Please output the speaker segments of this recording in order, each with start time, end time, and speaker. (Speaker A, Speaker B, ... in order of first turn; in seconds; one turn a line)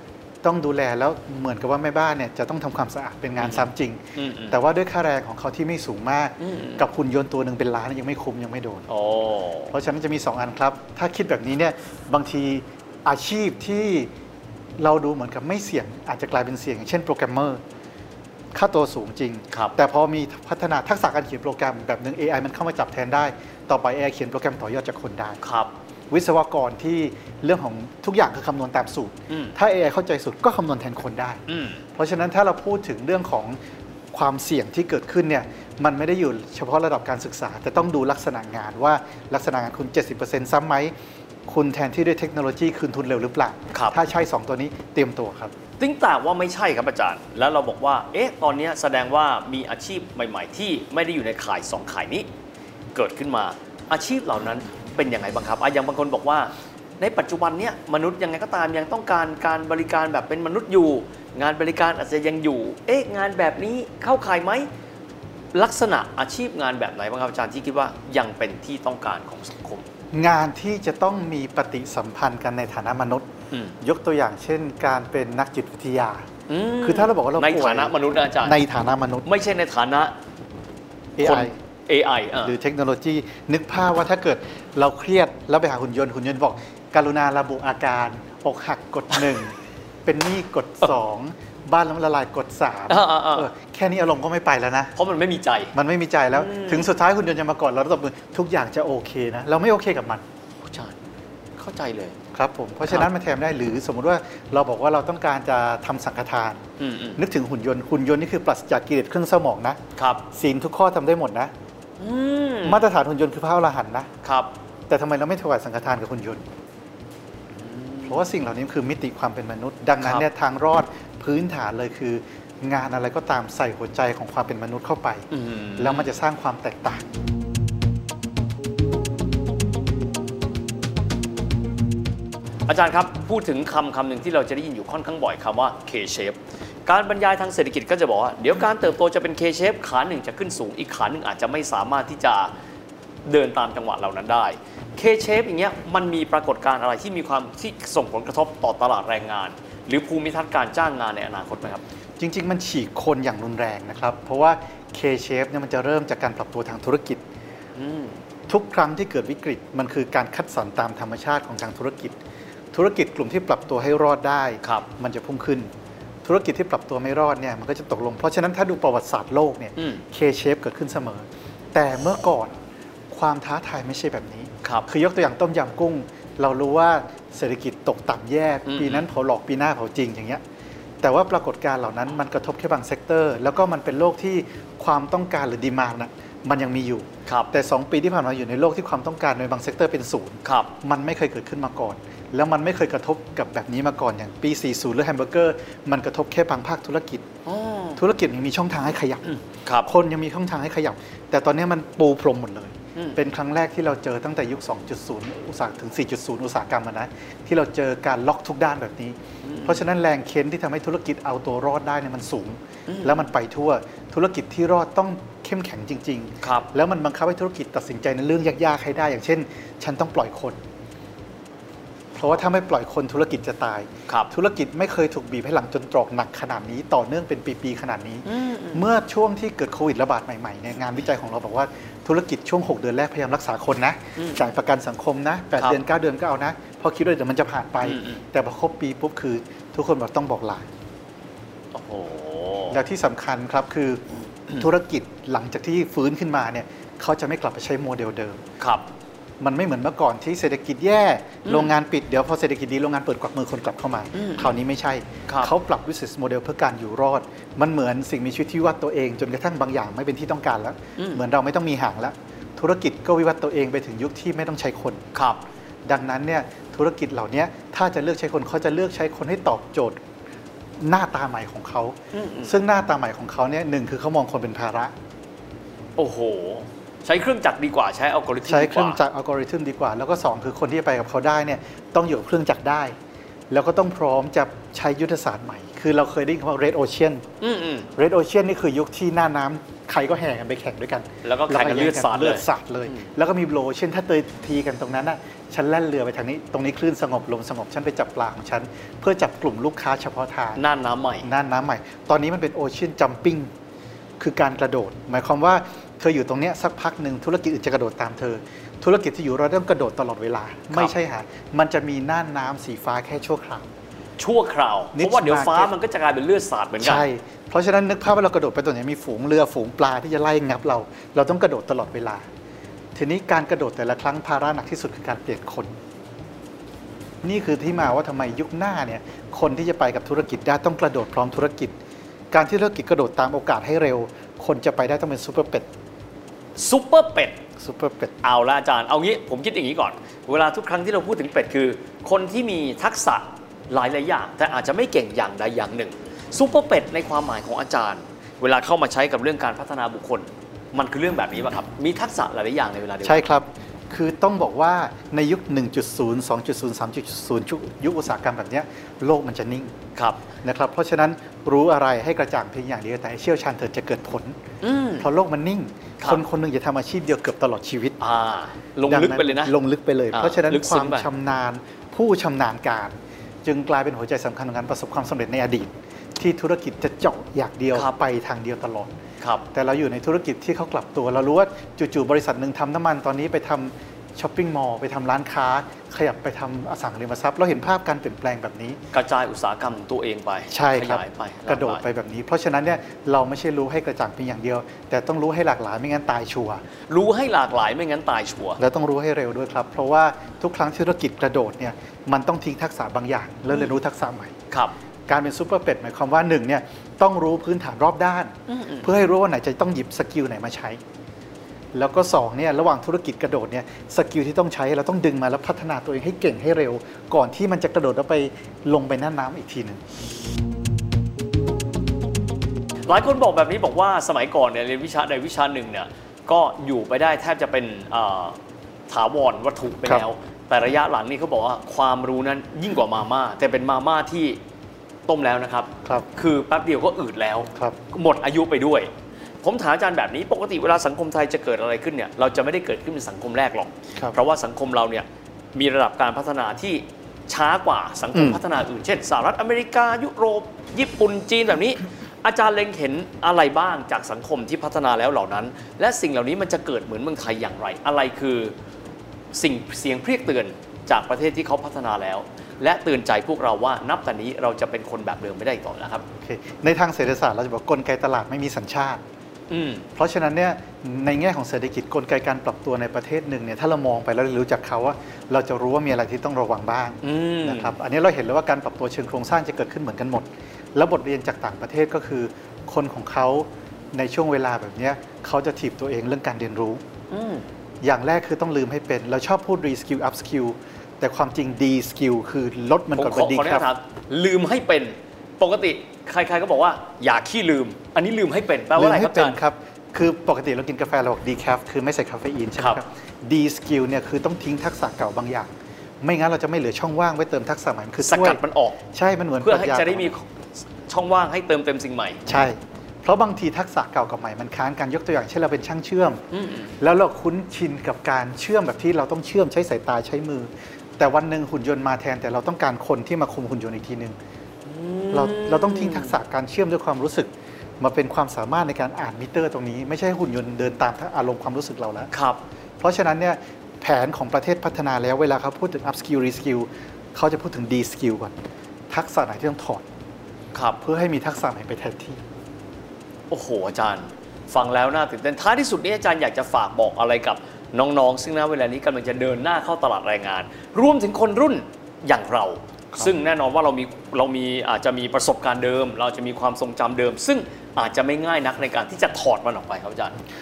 Speaker A: 0.4-8.9
Speaker B: 3.4-4.6
Speaker B: 6.4-6.8
Speaker B: 8.9-9.7
Speaker A: 9.7-14.1
Speaker A: 14.8-17.6
Speaker A: 18.5-25.4
Speaker B: 19.5-19.8
Speaker B: 25.4-25.7
Speaker A: 26.1-31.4
Speaker B: 29.3-29.5
Speaker B: 31.5-31.8
Speaker A: 31.9-33.6
Speaker A: 34.1-40.9
Speaker A: 41.5-45.5
Speaker B: 43.7-44.0
Speaker B: 45.8-52.3
Speaker B: 52.9-64.7
Speaker B: 65.5-69.8
Speaker A: 70.1-73.3
Speaker A: 73.8-76.2
Speaker B: 76.5-78.6
Speaker A: 76.8-79.3
Speaker B: 79.2-80.1
Speaker A: 81.2-81.6
Speaker B: 81.2-82.6
Speaker A: 82.4-89.5
Speaker A: 90.0-94.9
Speaker B: 92.9-93.5
Speaker B: 94.9-95.8
Speaker A: 95.7-100.2
Speaker B: 96.3-96.9
Speaker B: 100.6-101.0
Speaker B: 101.6-102.2
Speaker A: 102.3-106.6
Speaker B: 106.8-107.2
Speaker A: 107.2-109.8
Speaker B: 110.0-110.2
Speaker A: 110.3-111.5
Speaker B: 112.0-112.8
Speaker A: 112.6-114.1
Speaker B: 114.2-114.5
Speaker A: 114.9-116.4
Speaker B: 117.6-118.2
Speaker A: 118.0-127.0
Speaker B: 120.0-120.2
Speaker B: 125.3-126.1
Speaker B: 132.7-142.5
Speaker B: 143.2-151.8
Speaker A: 152.2-157.2
Speaker B: 157.8-158.2
Speaker A: 158.5-162.2
Speaker A: 162.7-165.7
Speaker B: 164.6-164.9
Speaker A: 166.2-172.6
Speaker A: 173.1-180.4
Speaker B: 174.6-174.9
Speaker B: 178.7-179.1
Speaker A: 181.0-197.2
Speaker B: 187.2-187.5
Speaker B: 190.4-190.7
Speaker B: 197.4-198.0
Speaker A: 198.0-220.6
Speaker B: 199.3-199.9
Speaker B: 202.9-203.2
Speaker B: 209.4-209.8
Speaker B: 212.9-213.3
Speaker B: 216.4-216.7
Speaker A: 222.1-240.7
Speaker B: 228.2-228.8
Speaker B: 234.2-234.4
Speaker B: 237.8-238.2
Speaker B: 241.7-242.8
Speaker A: 242.7-248.4
Speaker B: 248.6-248.9
Speaker A: 249.4-265.0
Speaker B: 251.4-251.7
Speaker B: 254.1-254.5
Speaker B: 255.3-255.5
Speaker B: 261.0-261.2
Speaker B: 265.1-265.4
Speaker A: 265.9-270.0
Speaker A: 270.8-274.9
Speaker B: 272.1-272.6
Speaker B: 276.0-279.0
Speaker A: 278.4-282.9
Speaker A: 283.5-287.2
Speaker B: 287.4-287.9
Speaker A: 287.9-300.6
Speaker B: 291.2-293.1
Speaker B: 300.6-301.3
Speaker A: 301.2-303.5
Speaker A: 304.2-313.7
Speaker B: 314.2-317.1
Speaker A: 314.9-315.7
Speaker A: 316.8-322.2
Speaker A: 322.9-325.7
Speaker A: 327.2-331.8
Speaker A: 332.3-335.7
Speaker B: 336.6-337.4
Speaker A: 337.6-338.1
Speaker B: 338.2-353.3
Speaker A: 353.0-359.7
Speaker B: 359.9-360.2
Speaker A: 360.4-364.4
Speaker B: 364.6-365.1
Speaker A: 365.0-368.0
Speaker B: 368.0-369.5
Speaker A: 368.9-378.9
Speaker B: 370.1-371.1
Speaker B: 379.2-379.4
Speaker A: 379.5-388.8
Speaker B: 388.9-391.8
Speaker A: 390.5-396.6
Speaker B: 396.9-398.6
Speaker A: 398.6-404.3
Speaker A: 405.1-410.8
Speaker B: 408.5-408.9
Speaker A: 411.7-419.8
Speaker B: 422.9-428.4
Speaker B: 428.9-434.4
Speaker B: 435.1-438.9
Speaker B: 439.4-458.5
Speaker A: 448.1-448.4
Speaker B: 459.3-466.0
Speaker A: 466.2-469.0
Speaker B: 469.5-469.8
Speaker A: 469.9-486.8
Speaker B: 477.0-477.8
Speaker B: 487.1-487.4
Speaker A: 487.8-493.7
Speaker B: 492.9-499.4
Speaker A: 498.7-508.4
Speaker B: 502.6-502.8
Speaker B: 508.0-508.8
Speaker A: 508.9-510.1
Speaker B: 509.4-510.2
Speaker B: 510.9-512.2
Speaker A: 512.2-516.2
Speaker B: 516.3-516.7
Speaker A: 516.8-524.2
Speaker B: 524.6-526.2
Speaker A: 525.1-532.1
Speaker B: 532.1-532.4
Speaker A: 532.8-538.4
Speaker A: 538.9-539.8
Speaker B: 540.5-540.8
Speaker A: 540.8-542.2
Speaker B: 543.3-560.2